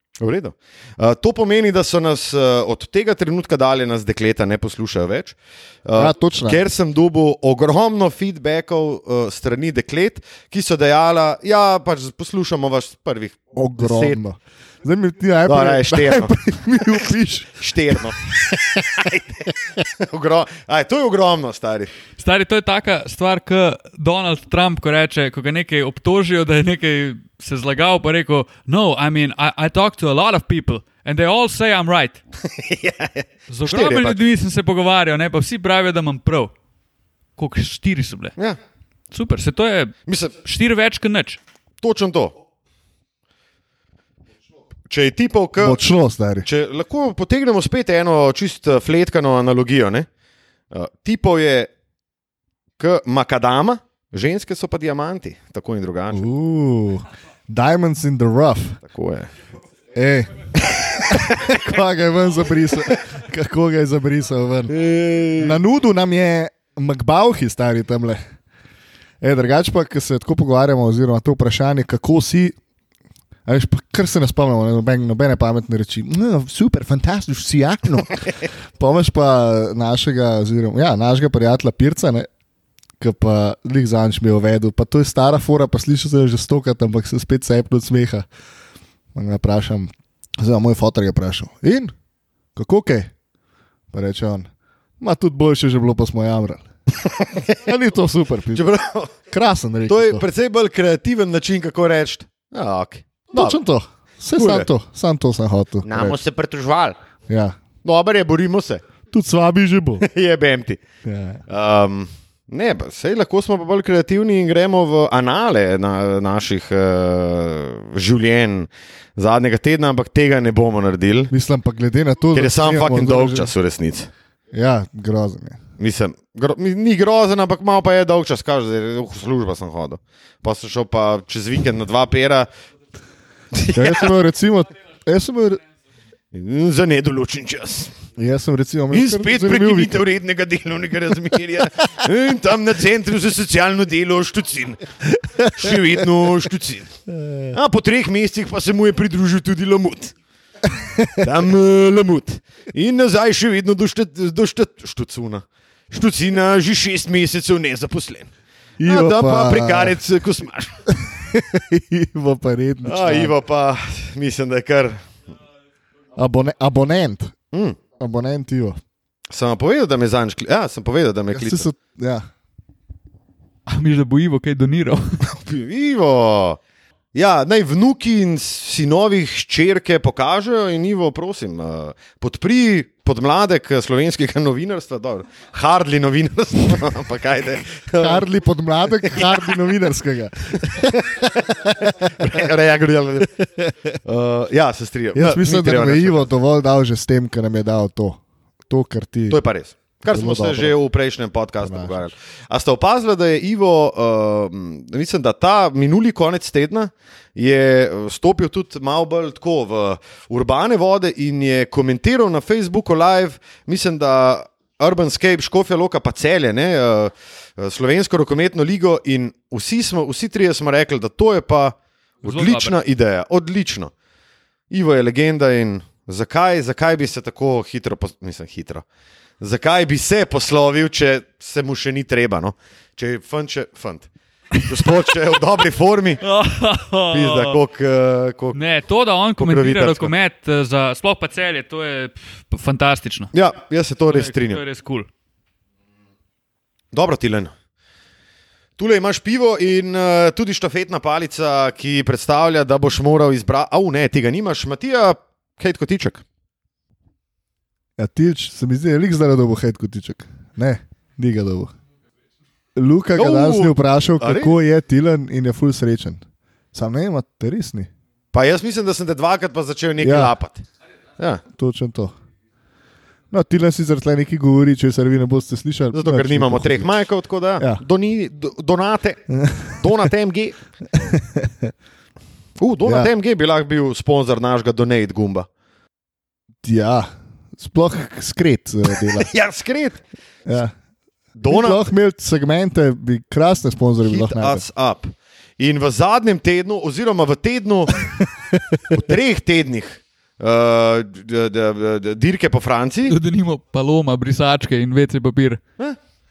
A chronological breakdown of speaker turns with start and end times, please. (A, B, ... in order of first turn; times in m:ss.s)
0:00.2-0:14.2 A
0:06.0-0:06.6 B
0:13.5-0:18.0 B
0:15.4-0:16.4 A
0:17.6-0:19.2 A
0:20.0-0:21.9 A
0:22.2-0:32.2 C
0:32.4-0:34.2 A
0:33.5-0:36.5 C
0:37.4-0:38.3 C
0:39.1-0:41.4 C
0:40.0-0:40.3 A
0:41.8-0:42.3 A
0:44.9-0:45.8 A
0:45.6-0:46.5 B
0:46.4-0:50.1 A
0:50.7-0:51.7 A
0:52.8-0:56.2 A
0:56.1-0:58.8 B
0:58.8-0:59.3 A
0:59.9-1:00.5 B
1:00.9-1:01.6 A
1:01.1-1:04.7 B
1:04.7-1:05.6 A
1:05.4-1:08.2 B
1:09.2-1:12.6 B
1:13.4-1:22.3 B
1:23.0-1:28.3 B
1:29.1-1:31.9 B
1:32.6-1:33.1 B
1:33.9-1:36.7 B
1:37.4-1:38.7 B
1:38.5-1:39.2 A
1:39.3-1:40.2 B
1:39.9-1:43.6 A
1:43.3-1:46.2 B
1:44.3-1:44.7 A
1:45.8-1:47.0 A
1:47.3-1:47.6 B
1:47.8-1:48.8 A
1:49.1-1:50.0 B
1:50.0-1:50.8 A
1:51.0-1:51.4 B
1:51.5-2:01.3 A
2:01.3-2:03.5 B
2:02.3-2:04.1 A
2:04.5-2:05.6 B
2:05.8-2:12.5 A
2:13.5-2:14.1 A
2:13.7-2:15.6 B
2:16.3-2:18.0 A
2:18.2-2:20.0 B
2:18.9-2:24.8 A
2:25.1-2:25.7 B
2:25.4-2:26.9 A
2:27.1-2:27.6 B
2:27.5-2:30.1 A
2:30.7-2:31.3 B
2:31.2-2:38.3 A
2:38.8-2:40.0 B
2:38.8-2:41.0 A
2:41.0-2:43.3 B
2:42.8-2:45.1 A
2:46.2-2:47.3 B
2:47.5-2:47.8 A
2:48.0-2:48.8 B
2:49.3-2:51.6 A
2:51.3-2:52.3 B
2:53.7-2:55.2 C
2:55.2-2:56.6 A
2:57.1-3:08.2 A
3:07.9-3:12.4 B
3:09.0-3:09.5 A
3:10.5-3:13.5 A
3:14.0-3:16.3 A
3:15.1-3:19.4 B
3:19.3-3:43.9 A
3:20.1-3:20.8 B
3:21.6-3:22.0 B
3:42.2-3:42.8 C
3:44.7-3:48.8 A
3:49.4-3:54.1 A
3:54.6-3:56.2 A
3:56.2-3:57.6 C
3:57.1-3:58.6 A
3:58.5-4:03.3 C
3:59.4-4:00.1 A
4:03.3-4:04.6 A
4:04.1-4:05.1 C
4:06.9-4:07.5 A
4:08.8-4:16.2 A
4:18.0-4:21.7 B
4:22.7-4:26.2 B
4:23.2-4:24.6 A
4:26.7-4:27.9 B
4:28.3-4:30.6 A
4:30.0-4:30.3 B
4:31.5-4:32.1 B
4:33.3-4:36.9 B
4:35.9-4:39.2 A
4:39.3-4:39.7 B
4:39.7-4:40.6 A
4:40.9-4:41.7 B
4:42.6-4:45.5 A
4:42.8-4:43.1 B
4:46.6-4:49.3 B
4:49.2-4:50.0 A
4:50.4-4:50.7 B
4:51.4-4:51.8 A
4:51.5-4:54.6 B
4:54.0-4:58.1 A
4:58.2-4:59.0 B
4:58.9-5:03.1 A
5:03.1-5:05.6 C